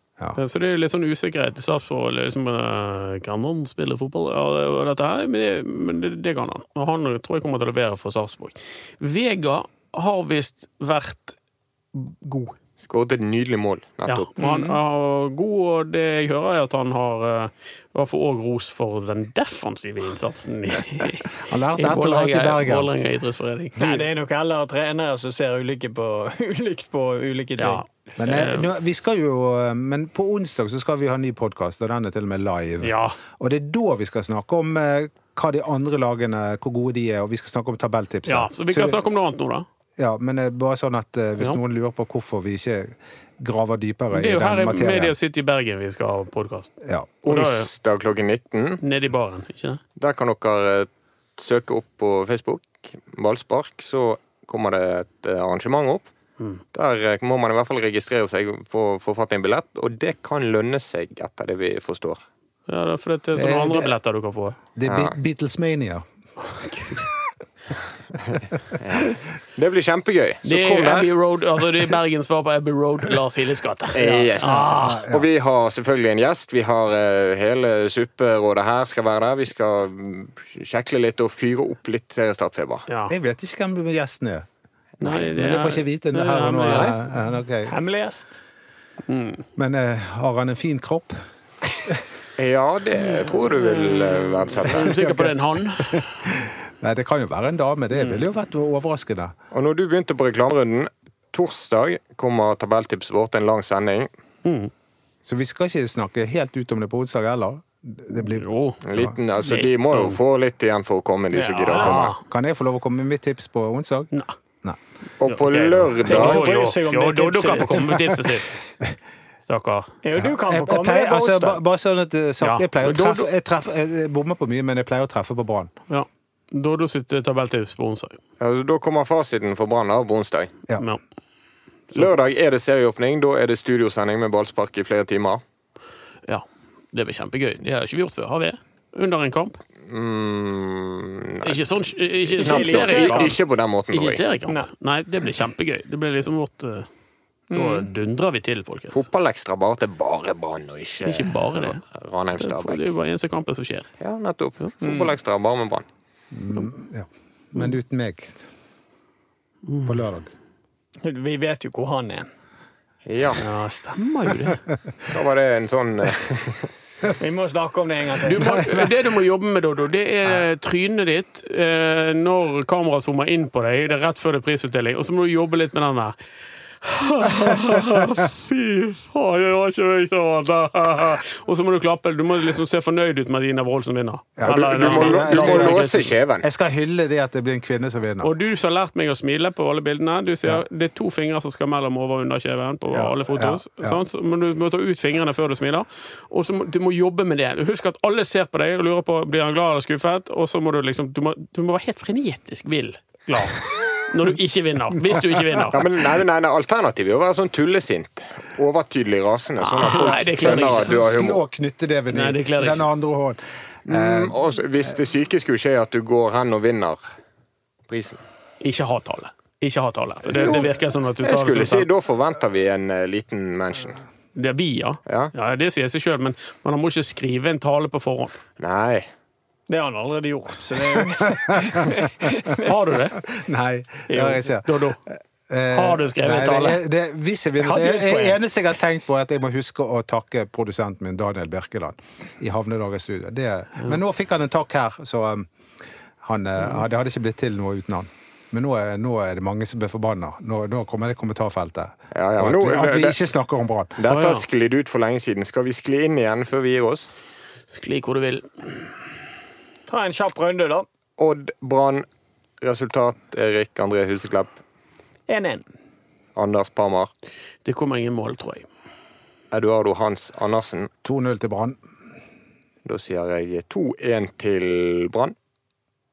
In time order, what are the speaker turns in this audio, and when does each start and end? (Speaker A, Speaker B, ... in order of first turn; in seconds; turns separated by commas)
Speaker A: 0.3-11.3, Speaker A: 11.9-12.5, Speaker B: 12.8-14.3, Speaker A: 14.1-24.1, Speaker C: 14.4-14.8, Speaker D: 21.3-22.9, Speaker C: 23.8-27.8, Speaker A: 27.6-28.7, Speaker D: 28.2-39.0, Speaker A: 32.8-33.2, Speaker A: 38.2-39.6, Speaker D: 40.0-45.1, Speaker A: 44.1-46.7, Speaker D: 46.8-47.1, Speaker B: 47.2-48.8, Speaker A: 47.2-47.7, Speaker A: 48.8-49.8, Speaker B: 50.0-56.1, Speaker B: 56.7-62.2, Speaker A: 62.7-64.6, Speaker D: 63.4-64.0, Speaker D: 64.6-66.0, Speaker B: 64.9-65.1, Speaker A: 66.4-67.0, Speaker B: 68.3-71.1, Speaker A: 70.4-75.0, Speaker B: 73.9-82.8, Speaker D: 74.1-75.2, Speaker A: 82.9-83.1, Speaker D: 83.1-84.4, Speaker B: 85.0-85.3, Speaker A: 85.0-87.0, Speaker D: 85.0-87.7, Speaker C: 87.7-88.4, Speaker A: 89.1-89.4, Speaker D: 89.6-91.2, Speaker B: 92.4-95.0, Speaker A: 93.0-96.1, Speaker D: 94.7-99.3, Speaker A: 98.0-98.2, Speaker B: 99.5-104.1, Speaker A: 104.4-104.7, Speaker D: 105.2-109.1, Speaker A: 108.2-108.8, Speaker B: 108.8-112.2, Speaker A: 109.3-110.2, Speaker C: 111.3-112.0, Speaker A: 111.7-112.2, Speaker D: 112.0-114.1, Speaker B: 115.2-116.5, Speaker A: 115.2-118.6, Speaker C: 116.0-118.0, Speaker A: 119.4-119.9, Speaker C: 120.0-121.6, Speaker D: 120.2-125.7, Speaker A: 122.4-123.3, Speaker A: 125.9-128.2, Speaker B: 128.4-130.5, Speaker B: 131.9-135.4, Speaker A: 136.3-139.6, Speaker B: 139.9-141.6, Speaker A: 141.4-143.4, Speaker B: 142.3-144.2, Speaker C: 142.4-143.4, Speaker A: 143.9-146.9, Speaker C: 147.5-147.9, Speaker A: 147.5-149.0, Speaker B: 148.9-152.9, Speaker A: 151.0-151.8, Speaker A: 152.4-153.9, Speaker B: 154.0-155.8, Speaker C: 154.8-155.1, Speaker D: 156.3-158.5, Speaker A: 159.6-160.1, Speaker D: 159.8-160.3, Speaker C: 161.0-162.3, Speaker B: 163.1-163.4, Speaker A: 163.4-164.6, Speaker B: 165.1-166.7, Speaker C: 167.2-168.7, Speaker A: 168.2-176.1, Speaker A: 176.8-186.1, Speaker D: 184.4-185.9, Speaker B: 184.5-186.4, Speaker D: 186.4-188.3, Speaker A: 188.2-205.9, Speaker D: 192.9-194.0, Speaker D: 205.2-205.6, Speaker B: 205.7-211.4, Speaker A: 209.6-211.0, Speaker D: 210.4-214.4, Speaker A: 212.1-212.9, Speaker B: 213.9-217.0, Speaker B: 217.9-218.2, Speaker A: 218.6-221.9, Speaker B: 220.2-224.0, Speaker A: 224.3-228.4, Speaker B: 225.1-225.3, Speaker B: 228.6-229.1, Speaker C: 229.7-232.7, Speaker D: 231.3-232.3, Speaker A: 232.6-233.2, Speaker D: 233.2-245.5, Speaker C: 234.1-234.4, Speaker A: 234.6-235.0, Speaker A: 235.7-236.8, Speaker C: 237.6-238.4, Speaker D: 246.2-254.0, Speaker B: 252.1-253.2, Speaker B: 254.0-257.1, Speaker A: 254.1-254.4, Speaker A: 257.7-258.7, Speaker C: 259.9-260.9, Speaker B: 261.2-262.1, Speaker B: 262.6-264.6, Speaker C: 265.3-265.7, Speaker B: 266.3-267.1, Speaker A: 267.6-268.6, Speaker B: 269.5-270.9, Speaker D: 271.0-271.8, Speaker B: 272.8-275.3